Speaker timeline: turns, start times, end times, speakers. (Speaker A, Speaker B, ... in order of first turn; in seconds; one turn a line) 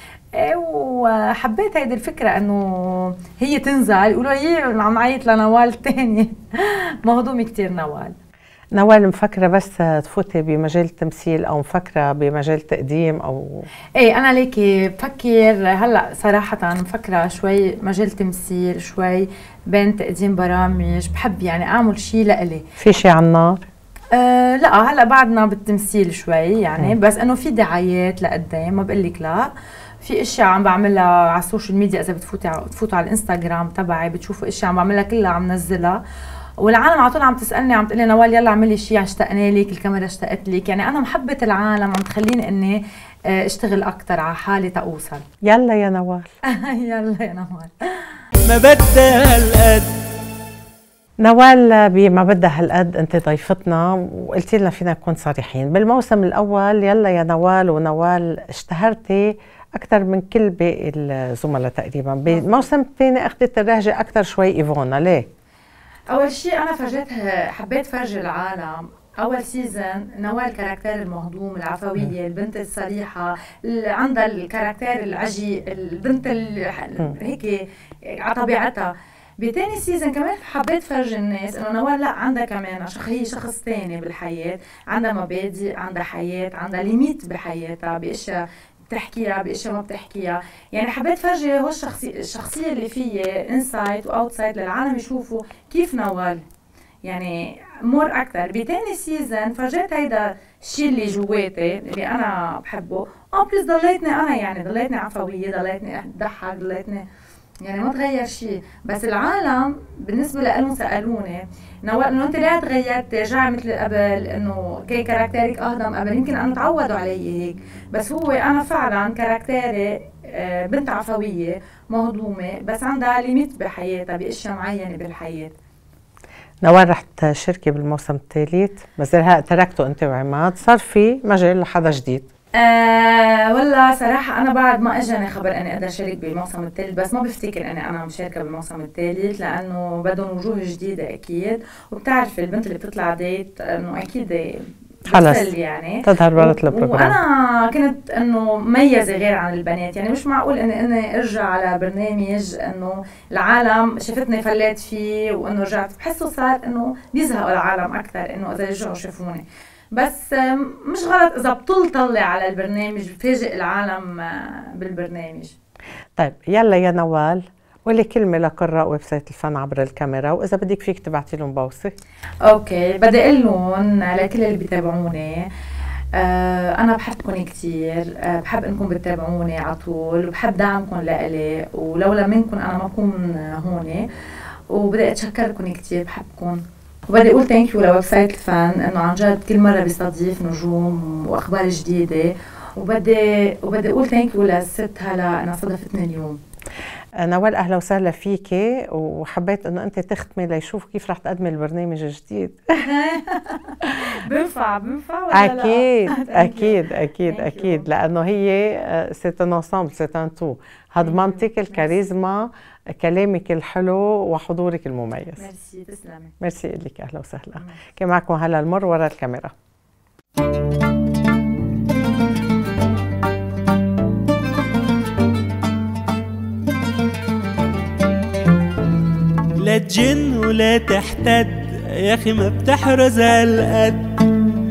Speaker A: 0.3-8.2
Speaker B: 8.7-13.7
Speaker A: 13.9-22.6
Speaker B: 22.8-23.6
Speaker A: 24.1-36.0
Speaker A: 36.6-45.2
Speaker B: 45.4-46.3
Speaker A: 46.4-48.2
Speaker C: 48.4-49.9
Speaker B: 51.2-65.3
Speaker A: 62.3-62.6
Speaker A: 66.1-96.4
Speaker A: 97.0-107.0
Speaker A: 107.6-125.5
Speaker B: 126.6-132.2
Speaker A: 132.6-165.5
Speaker B: 145.1-145.5
Speaker B: 146.0-147.2
Speaker B: 166.2-171.9
Speaker A: 172.4-175.5
Speaker A: 176.1-196.4
Speaker B: 197.2-202.8
Speaker A: 202.8-207.9
Speaker B: 205.3-215.4
Speaker A: 211.0-212.0
Speaker A: 215.3-216.3
Speaker B: 216.4-219.5
Speaker C: 229.6-234.2